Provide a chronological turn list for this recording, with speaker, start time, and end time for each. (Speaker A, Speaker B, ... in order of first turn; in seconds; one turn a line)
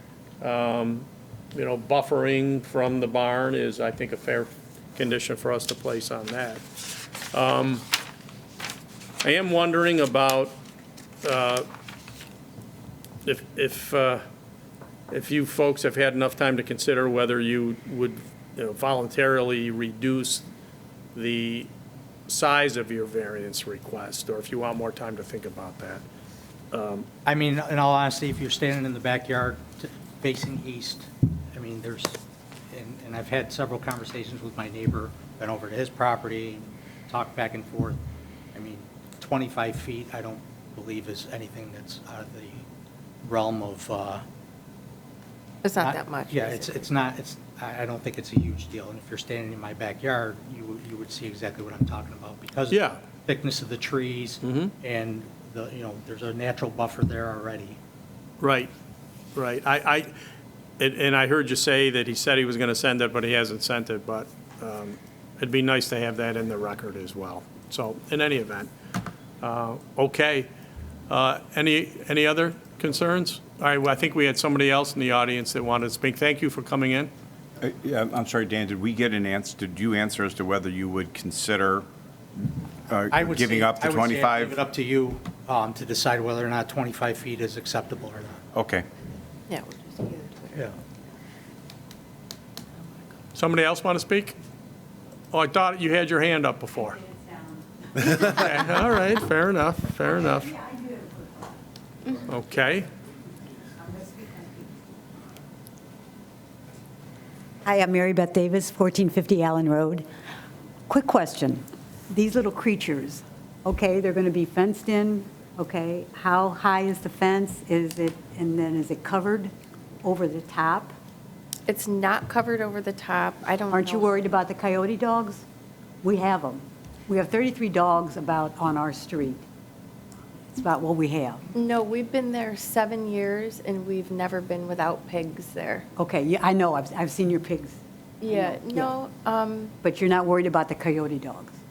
Speaker A: 0.4-6.7
Speaker A: 7.3-7.9
Speaker A: 9.2-10.6
Speaker A: 11.2-11.7
Speaker A: 13.2-14.2
Speaker A: 15.1-20.5
Speaker A: 21.1-21.7
Speaker A: 22.3-26.0
Speaker A: 26.7-27.1
Speaker B: 27.3-32.2
Speaker B: 32.7-38.0
Speaker B: 38.5-42.7
Speaker B: 43.2-44.2
Speaker C: 45.6-46.8
Speaker B: 45.8-57.8
Speaker A: 52.7-53.0
Speaker A: 54.4-54.7
Speaker A: 58.4-58.7
Speaker A: 59.4-60.1
Speaker A: 60.8-68.7
Speaker A: 69.4-70.5
Speaker A: 71.1-77.1
Speaker D: 77.6-81.9
Speaker D: 82.9-84.6
Speaker B: 83.1-88.4
Speaker D: 88.5-88.9
Speaker C: 89.5-90.7
Speaker A: 93.3-94.4
Speaker A: 95.3-97.0
Speaker E: 97.0-98.1
Speaker A: 98.0-100.5
Speaker E: 100.5-101.5
Speaker A: 102.3-102.9
Speaker E: 103.8-104.7
Speaker E: 107.7-110.1
Speaker E: 110.9-119.5
Speaker E: 120.0-120.9
Speaker C: 121.7-124.1
Speaker E: 123.7-125.4
Speaker E: 126.0-129.4
Speaker E: 130.5-131.4
Speaker C: 131.6-135.9
Speaker E: 136.0-138.9
Speaker C: 138.2-139.7
Speaker E: 139.8-141.6